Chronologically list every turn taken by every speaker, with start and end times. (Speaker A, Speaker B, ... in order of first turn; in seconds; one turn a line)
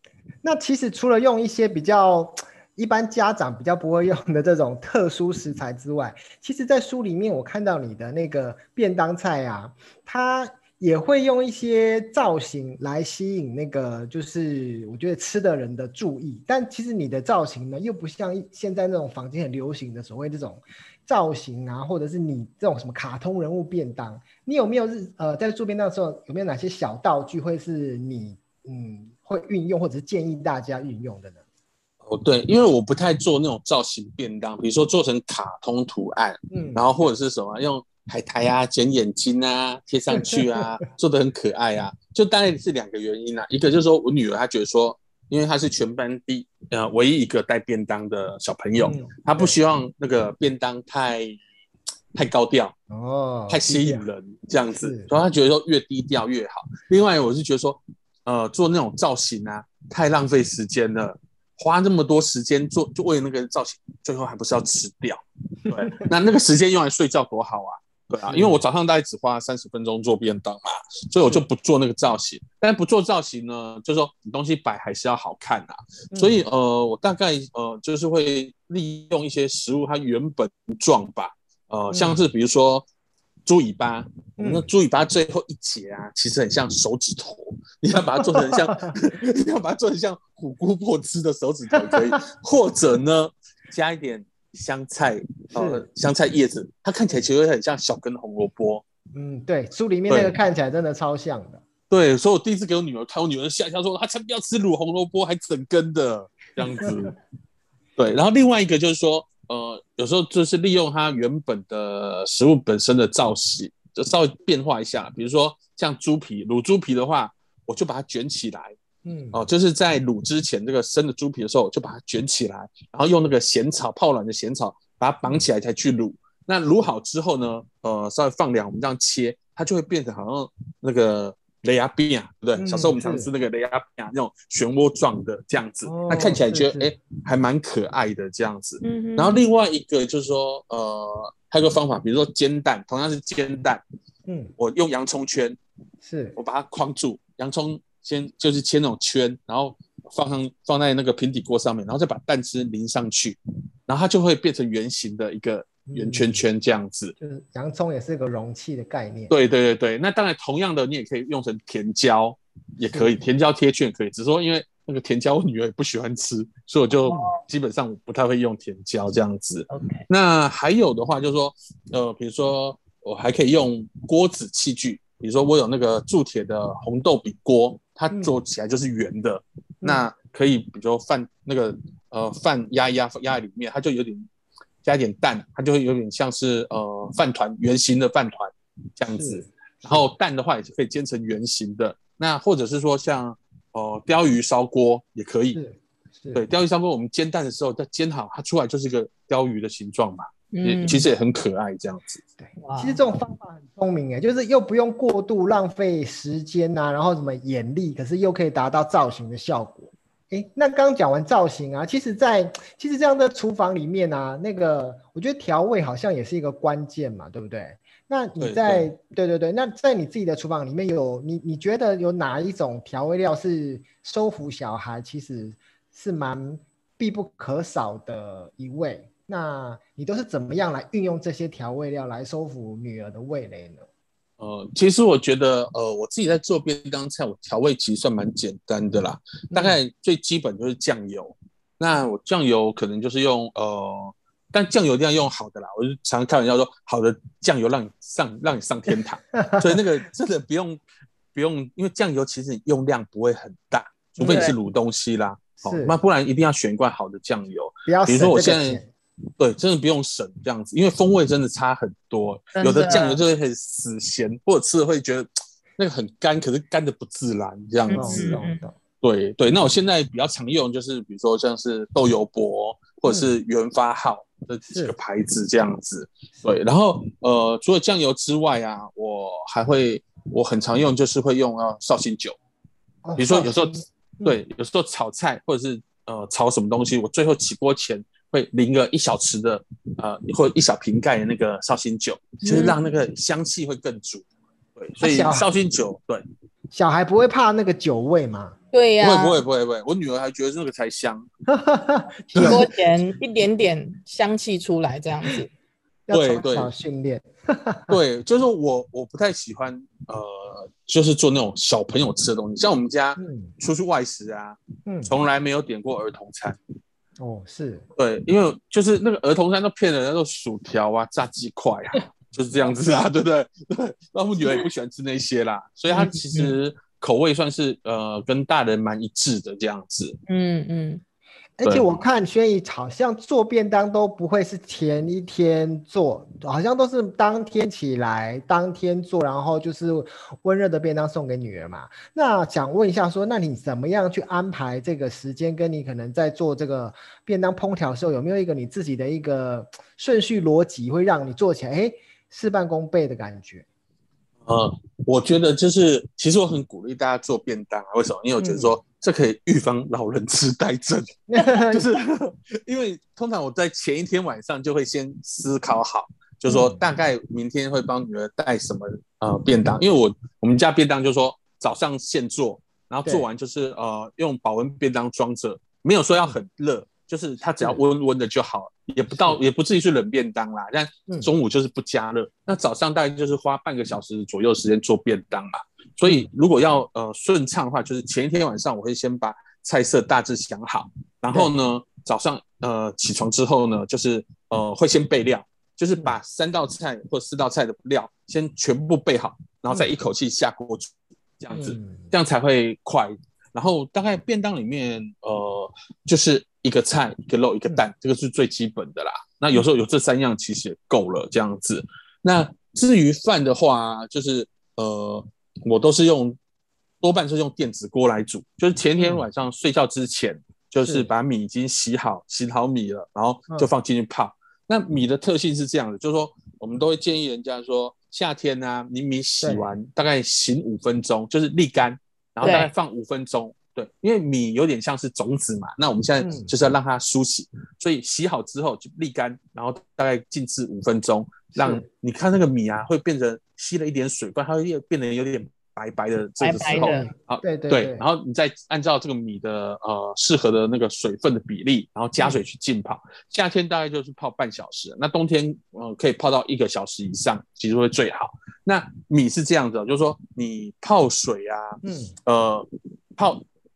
Speaker A: 0.4-31.4
Speaker B: 32.0-51.4
Speaker A: 36.5-36.9
Speaker A: 40.1-40.6
Speaker A: 48.8-49.6
Speaker B: 52.1-52.8
Speaker A: 52.9-54.0
Speaker B: 53.5-82.9
Speaker A: 54.7-55.1
Speaker A: 68.3-68.6
Speaker A: 76.1-76.4
Speaker A: 81.9-82.2
Speaker B: 83.5-98.8
Speaker A: 84.4-84.7
Speaker A: 88.4-88.9
Speaker A: 95.5-95.8
Speaker A: 99.1-101.6
Speaker B: 100.1-100.4
Speaker B: 101.9-107.2
Speaker B: 108.0-118.8
Speaker A: 119.0-119.4
Speaker B: 119.3-143.8
Speaker A: 132.6-133.3
Speaker A: 135.8-136.9
Speaker C: 138.8-139.5
Speaker A: 144.3-144.5
Speaker B: 144.6-145.6
Speaker A: 146.0-146.4
Speaker B: 146.4-157.2
Speaker A: 155.9-156.4
Speaker A: 157.2-159.3
Speaker B: 159.3-184.3
Speaker A: 162.8-163.2
Speaker C: 167.1-167.4
Speaker C: 169.7-170.1
Speaker A: 178.1-178.4
Speaker B: 184.8-195.6
Speaker A: 189.2-190.1
Speaker A: 195.5-196.4
Speaker B: 196.3-202.2
Speaker C: 200.5-201.1
Speaker A: 202.4-233.9
Speaker C: 202.6-203.0
Speaker B: 218.4-218.9
Speaker B: 234.4-250.8
Speaker A: 239.5-239.8
Speaker A: 249.4-249.7
Speaker B: 251.3-258.8
Speaker C: 254.2-254.6
Speaker A: 255.6-255.9
Speaker A: 257.9-258.9
Speaker B: 259.4-268.4
Speaker C: 262.6-263.2
Speaker C: 267.9-268.6
Speaker A: 267.9-268.8
Speaker B: 269.0-282.4
Speaker A: 273.1-273.3
Speaker A: 283.0-284.4
Speaker B: 283.2-296.2
Speaker C: 292.4-292.8
Speaker A: 295.0-295.5
Speaker A: 296.7-298.6
Speaker C: 298.7-299.4
Speaker B: 299.0-301.3
Speaker A: 301.5-302.6
Speaker B: 302.3-302.6
Speaker C: 302.4-305.5
Speaker A: 306.1-308.0
Speaker B: 306.1-306.7
Speaker B: 307.9-316.6
Speaker A: 313.2-313.5
Speaker A: 314.9-315.1
Speaker A: 317.2-317.9
Speaker B: 318.0-330.2
Speaker A: 325.9-326.6
Speaker C: 330.3-331.0
Speaker A: 331.6-353.7
Speaker B: 331.6-331.9
Speaker B: 354.4-416.4
Speaker A: 358.4-358.7
Speaker A: 361.3-361.9
Speaker A: 366.5-366.8
Speaker A: 379.1-379.4
Speaker A: 386.0-386.3
Speaker A: 401.5-402.1
Speaker B: 417.0-463.4
Speaker A: 419.0-419.2
Speaker A: 420.8-421.1
Speaker A: 429.4-429.7
Speaker C: 432.4-432.7
Speaker A: 436.2-436.5
Speaker A: 441.5-441.9
Speaker C: 446.4-447.1
Speaker A: 446.7-448.1
Speaker A: 461.8-462.1